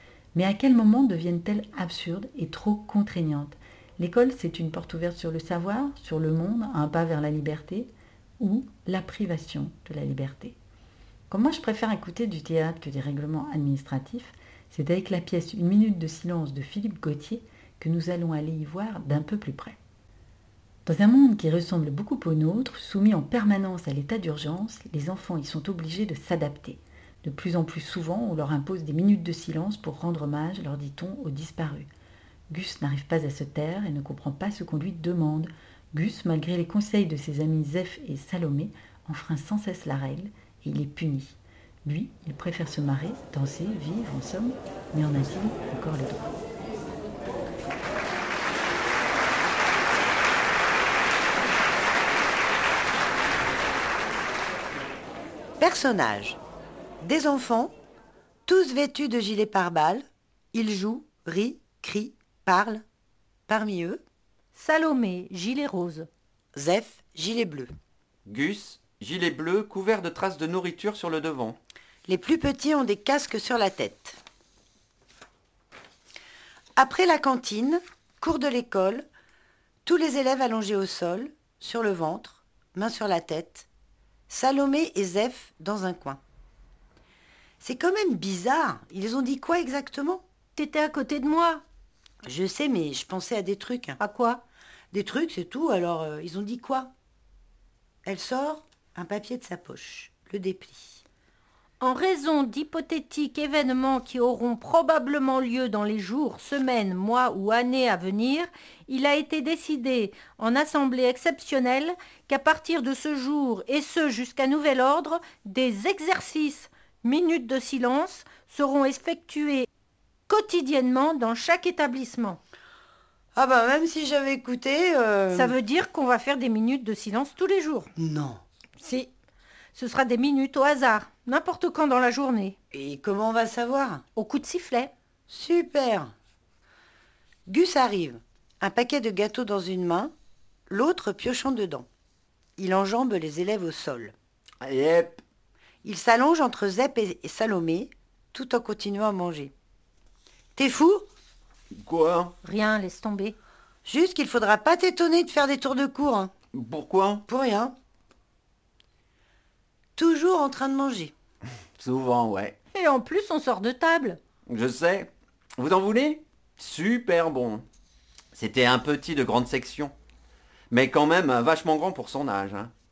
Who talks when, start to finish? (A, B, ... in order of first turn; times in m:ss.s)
0:00.3-0:10.6 A
0:11.3-0:19.8 A
0:20.8-0:31.9 A
0:32.5-0:46.3 A
0:55.6-0:56.4 B
0:57.0-0:57.7 B
0:58.5-1:02.8 B
1:03.5-1:04.0 B
1:04.5-1:06.1 C
1:06.6-1:07.7 B
1:08.2-1:11.6 D
1:12.1-1:14.2 B
1:16.8-1:19.0 B
1:19.8-1:23.7 B
1:24.3-1:26.2 B
1:27.6-1:30.2 B
1:30.6-1:31.6 C
1:32.2-1:34.0 B
1:34.0-1:34.4 C
1:34.9-1:36.9 B
1:38.0-1:41.0 B
1:41.8-1:59.7 C
2:00.3-2:02.4 C
2:03.4-2:05.6 B
2:05.3-2:07.9 C
2:08.0-2:08.4 B
2:08.8-2:09.1 C
2:09.7-2:12.5 C
2:12.7-2:14.0 B
2:14.2-2:14.9 C
2:15.3-2:16.1 B
2:17.5-2:20.1 B
2:20.7-2:21.9 B
2:22.6-2:24.1 B
2:24.6-2:25.2 D
2:25.8-2:29.5 B
2:30.6-2:31.1 B
2:31.8-2:32.4 D
2:32.4-2:33.4 C
2:33.8-2:36.3 B
2:36.5-2:37.2 D
2:37.3-2:37.7 B
2:40.0-2:41.1 B
2:41.8-2:42.6 D
2:42.7-2:44.2 C
2:44.5-2:47.6 D
2:48.3-2:49.9 D
2:50.7-2:52.7 D